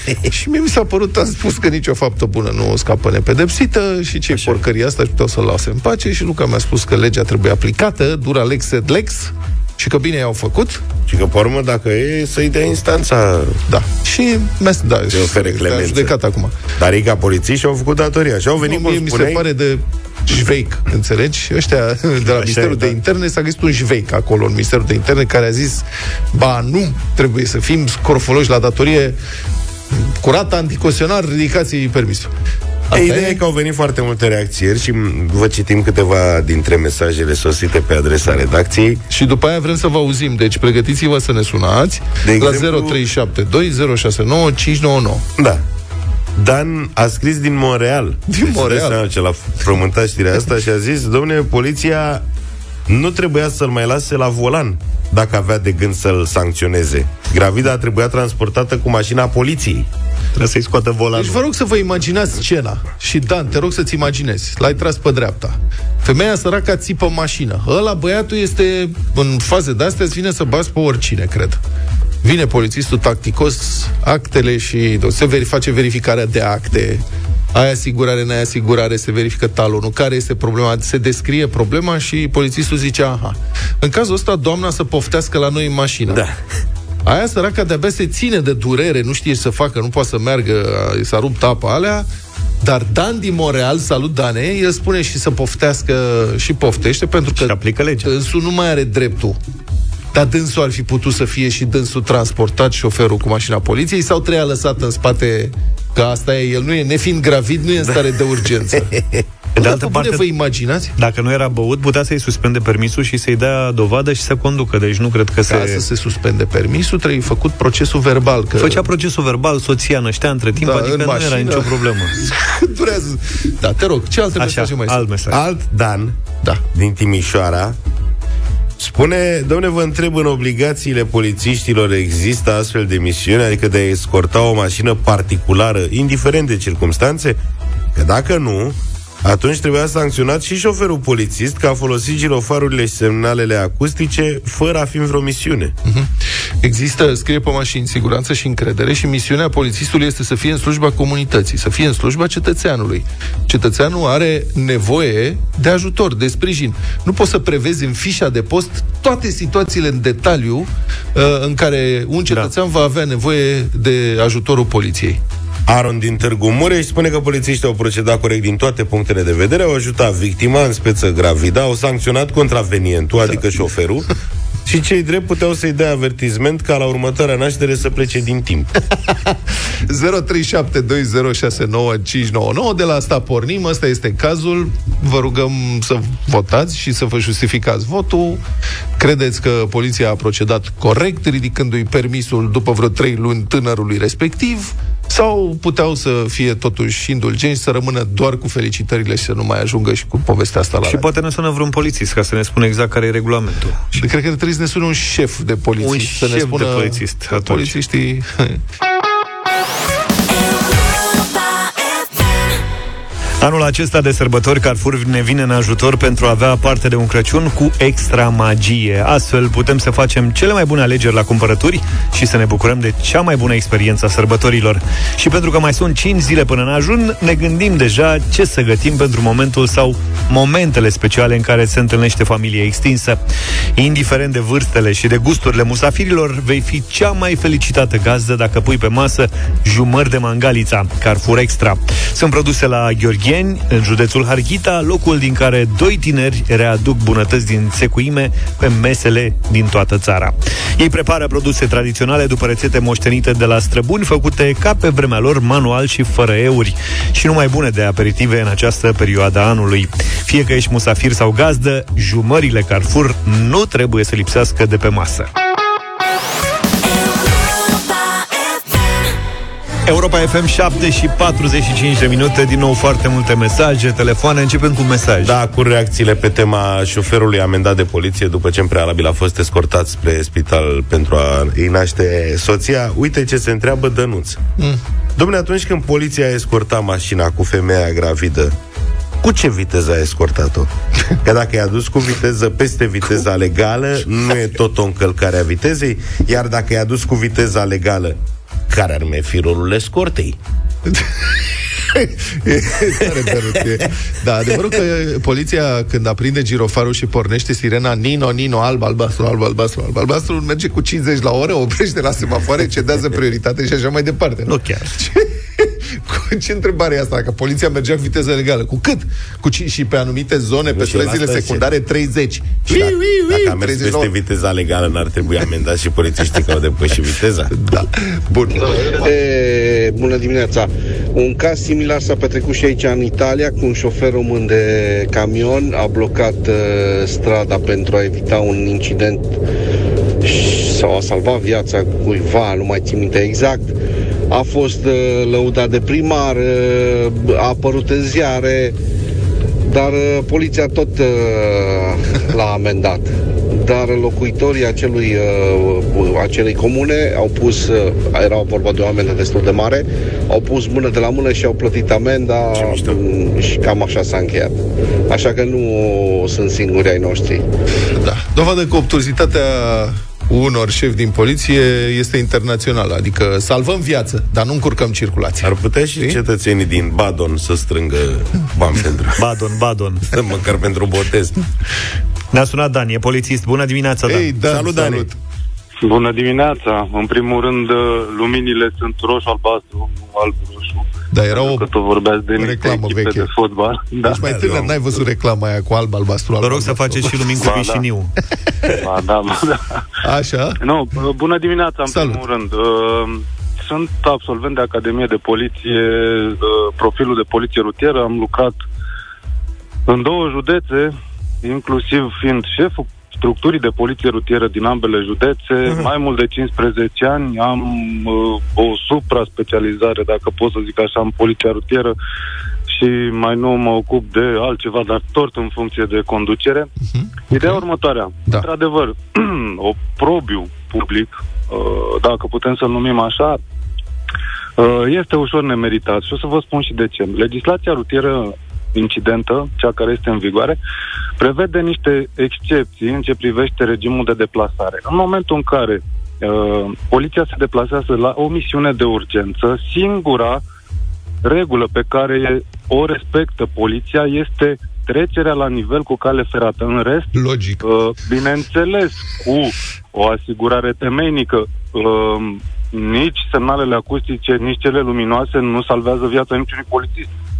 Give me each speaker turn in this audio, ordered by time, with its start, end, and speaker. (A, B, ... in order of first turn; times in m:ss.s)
0:00.2-0:10.8 A
0:04.3-0:04.6 B
0:11.1-0:13.6 C
0:13.7-0:16.6 A
0:15.1-0:16.1 C
0:16.8-0:19.4 C
0:18.6-0:29.2 A
0:22.2-0:22.9 B
0:29.9-0:32.3 A
0:32.9-0:33.4 A
0:32.9-0:39.0 C
0:39.1-0:45.2 A
0:42.2-0:43.0 C
0:45.4-0:45.6 C
0:46.4-0:52.2 C
0:48.3-0:49.0 A
0:52.9-0:59.9 C
1:00.4-1:01.4 B
1:01.1-1:11.6 A
1:12.2-1:26.2 A
1:26.1-1:26.3 C
1:27.0-1:32.1 A
1:32.6-1:39.4 A
1:37.3-1:38.1 B
1:40.1-1:48.9 A
1:48.9-1:49.2 C
1:49.6-1:50.2 B
1:49.6-1:50.9 A
1:51.0-1:55.8 B
1:55.5-1:58.9 A
1:58.6-2:02.2 B
2:00.6-2:05.0 A
2:04.4-2:05.4 B
2:05.3-2:06.2 C
2:06.7-2:07.8 C
2:08.8-2:17.4 C
2:17.9-2:25.7 C
2:25.8-2:45.2 A
2:45.7-2:54.1 C
2:54.6-2:58.7 C
2:59.1-3:08.4 A
3:09.0-3:21.1 A
3:20.8-3:23.9 B
3:23.9-3:28.6 A
3:25.8-3:27.8 B
3:33.4-3:53.2 B
3:53.8-4:25.3 B
4:29.8-4:35.4 B
4:35.2-4:44.4 C
4:45.2-4:48.5 C
4:49.2-4:50.7 C
4:51.2-4:58.2 C
4:58.7-5:00.4 C
5:00.9-5:01.3 A
5:01.9-5:24.1 A
5:14.5-5:15.0 B
5:20.7-5:21.6 C
5:22.7-5:27.5 C
5:27.5-5:28.9 A
5:28.9-5:39.3 D
5:40.2-5:43.7 D
5:44.3-5:48.7 D
5:49.6-6:04.5 D
6:02.5-6:03.0 C
6:05.1-6:07.4 D
6:07.9-6:16.2 A
6:15.4-6:19.1 C
6:19.2-6:20.1 B
6:20.1-6:21.4 C
6:22.3-6:24.6 B
6:24.1-6:25.2 A
6:24.5-6:25.1 C
6:25.8-6:34.2 E
6:31.1-6:31.7 A
6:32.4-6:33.3 A
6:34.0-6:37.3 A
6:34.2-6:34.7 C
6:36.4-6:38.1 B
6:37.4-6:37.8 E
6:38.8-6:39.8 E
6:40.0-6:40.6 A
6:40.6-6:48.5 E
6:41.9-6:42.2 A
6:49.9-7:01.9 E
7:02.7-7:06.7 E
7:06.8-7:07.6 A
7:07.3-7:13.4 E
7:14.6-7:20.6 E
7:21.2-7:30.4 E
7:31.2-7:47.1 E
7:37.1-7:37.6 A